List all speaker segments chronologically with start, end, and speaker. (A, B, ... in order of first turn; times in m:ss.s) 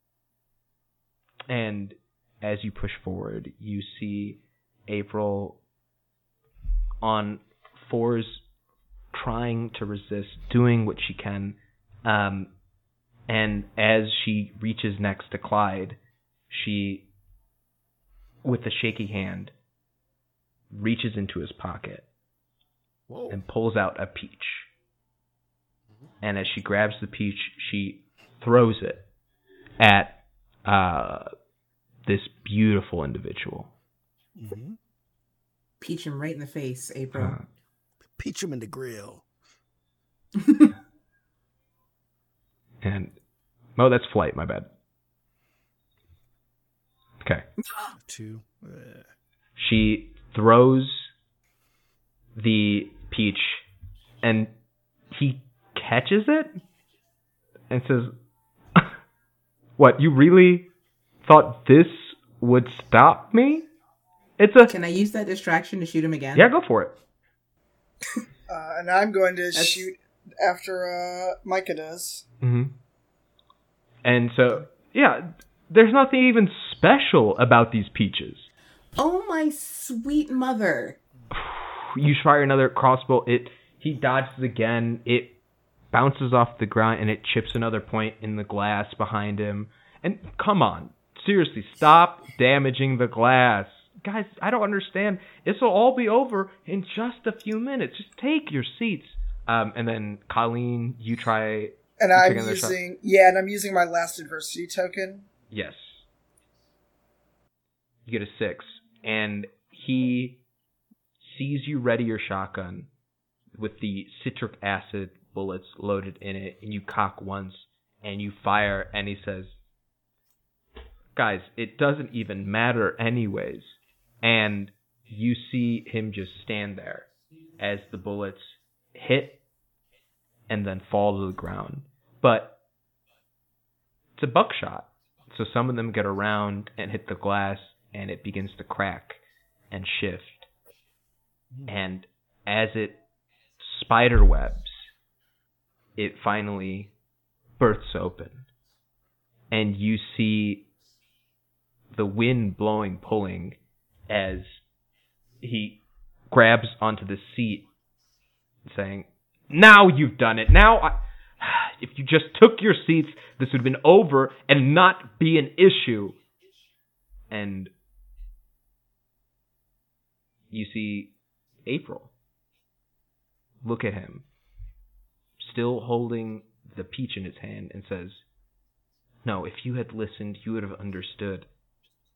0:01.5-0:05.6 A
0:07.0-0:08.4 A
0:09.1-0:12.5 A
0:13.3-0:16.0 A
0:16.5-0:17.1 A
0:18.4-0:19.5 A
0:20.7-0:22.0 A
0:23.1-0:23.4 B
0:23.3-0:24.7 A
0:26.2-0:29.0 A
0:29.8-0:31.3 A
0:32.0-0:33.7 A
0:34.4-0:34.8 B
0:35.8-0:37.4 C
0:37.1-0:37.4 A
0:38.2-0:39.2 B
0:42.8-0:43.1 A
0:43.8-0:44.7 A
0:48.0-0:49.1 B
0:49.6-0:51.1 A
0:52.4-0:53.6 A
0:54.2-0:54.5 A
0:55.1-0:56.6 A
0:57.7-0:58.1 A
0:59.8-1:00.7 A
1:01.2-1:03.7 A
1:04.4-1:04.7 A
1:04.7-1:06.5 C
1:06.3-1:07.0 A
1:08.5-1:12.2 D
1:09.6-1:09.9 C
1:12.4-1:12.7 A
1:14.0-1:18.5 A
1:19.0-1:21.0 C
1:21.3-1:25.3 A
1:25.9-1:42.8 A
1:42.0-1:45.3 D
1:45.5-1:46.0 A
1:48.0-1:50.4 A
1:51.2-1:52.9 A
1:53.6-1:59.5 A
2:01.1-2:09.4 A
2:10.5-2:12.6 A
2:14.2-2:19.2 A
2:19.7-2:20.5 A
2:21.7-2:23.0 A
2:23.6-2:24.9 A
2:26.0-2:26.9 A
2:27.6-2:28.4 A
2:29.5-2:30.7 A
2:31.9-2:33.6 A
2:34.1-2:34.6 A
2:35.4-2:35.8 A
2:36.3-2:37.7 A
2:38.6-2:46.2 A
2:47.3-2:47.7 A
2:50.5-2:51.1 A
2:51.6-2:52.1 A
2:53.6-2:54.2 A
2:55.4-2:58.2 A
2:59.2-3:01.5 A